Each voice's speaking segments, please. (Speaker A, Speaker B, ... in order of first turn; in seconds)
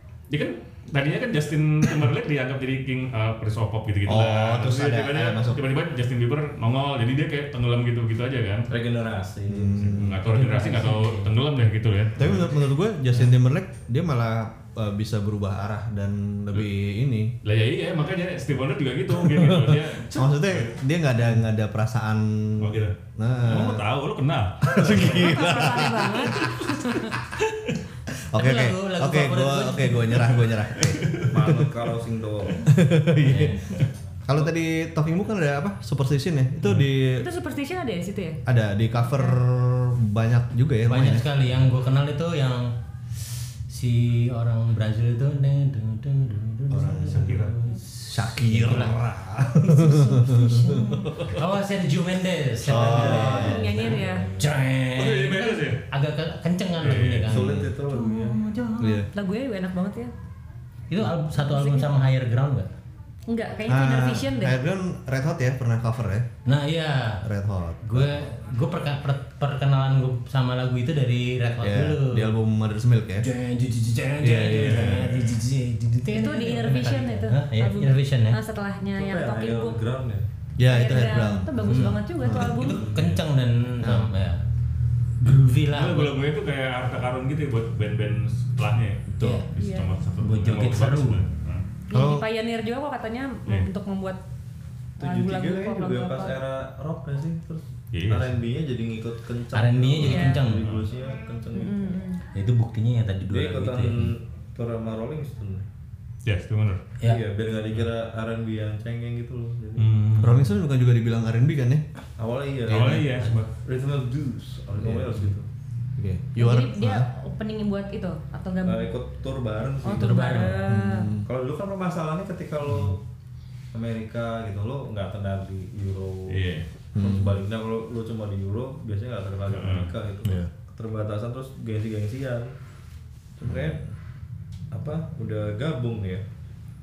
Speaker A: 0.3-8.7, 9.8-12.6, 17.4-20.8, 22.6-26.5, 27.4-27.8, 30.8-31.6, 47.0-47.6, 55.0-55.8, 56.8-57.5, 74.5-75.4, 82.8-83.2, 85.7-91.7, 97.9-98.4, 100.5-100.9, 106.2-106.8, 109.8-110.5, 112.7-113.5, 126.3-126.7, 129.5-129.9
Speaker B: 4.1-5.7, 9.5-10.2, 12.2-17.3, 19.1-23.9, 24.6-26.6, 28.1-31.7, 32.7-33.6, 34.3-37.2, 38.5-41.4, 46.7-47.5, 48.1-51.4, 52.6-53.6, 58.8-59.1, 63.7-66.3, 67.2-68.3, 71.6-73.3, 74.2-75.2, 80.6-82.6, 83.8-84.1, 91.9-92.3, 110.2-111.8, 112.7-113.1, 114.7-115.3, 116.0-117.1, 120.6-121.3, 127.0-127.4, 130.2-130.5, 133.4-133.8
Speaker C: 8.7-10.0, 31.3-32.7, 52.7-54.5, 57.3-58.4, 79.0-80.3, 95.0-102.0, 103.3-105.7, 107.0-109.9, 112.2-113.1, 113.6-115.5, 118.6-123.0, 123.7-126.5, 127.0-132.5, 133.4-133.9, 134.7-136.2
Speaker D: 10.2-11.3, 28.4-30.3, 33.2-33.7, 40.9-42.7, 43.7-59.0, 60.9-62.7, 66.5-67.2, 67.8-72.4, 73.2-78.4, 81.6-84.4, 85.2-86.3, 89.2-89.5, 90.2-91.2, 99.5-100.8, 102.3-104.1, 113.2-113.4, 119.9-120.7
Speaker E: 25.0-27.1, 37.1-38.4, 53.0-54.3, 59.1-60.1, 61.4-62.0, 63.3-64.6, 76.1-79.8, 80.7-82.9, 89.6-89.9, 91.9-94.2, 95.0-96.4, 100.0-100.4, 101.5-102.2, 116.4-119.0, 119.8-121.1